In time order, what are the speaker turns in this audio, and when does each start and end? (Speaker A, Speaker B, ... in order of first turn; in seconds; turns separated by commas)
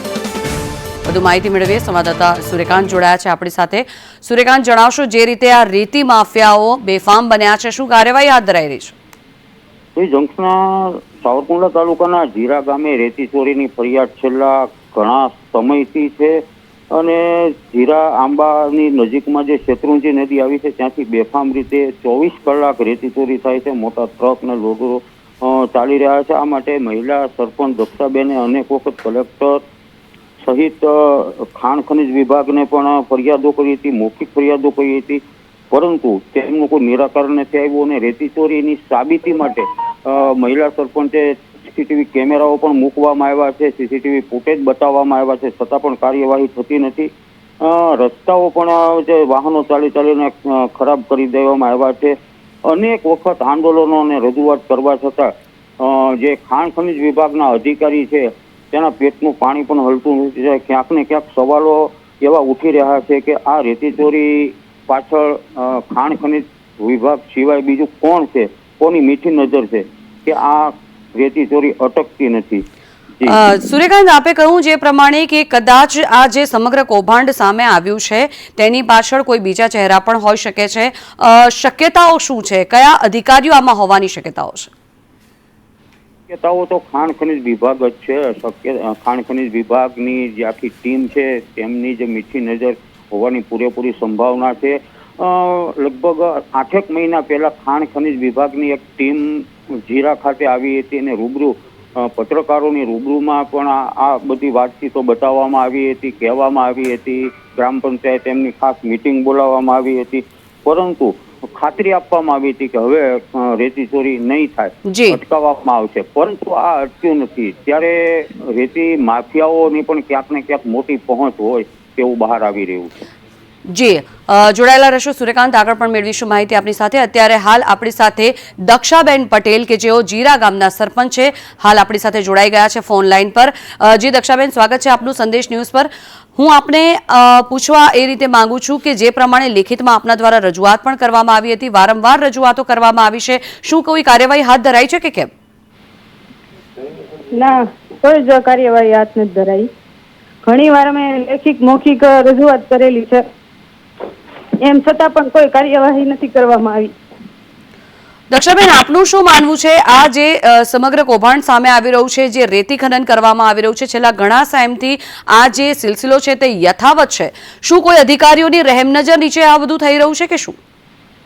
Speaker A: 1.0-8.9, Speaker B: 10.0-16.4, Speaker B: 16.9-29.6, Speaker B: 30.4-47.1, Speaker B: 47.6-72.6, Speaker A: 73.2-84.7, Speaker B: 86.3-122.9, Speaker A: 114.9-115.2, Speaker A: 123.7-145.3, Speaker C: 147.3-149.7, Speaker C: 150.4-153.2, Speaker C: 154.6-156.9, Speaker A: 158.3-170.6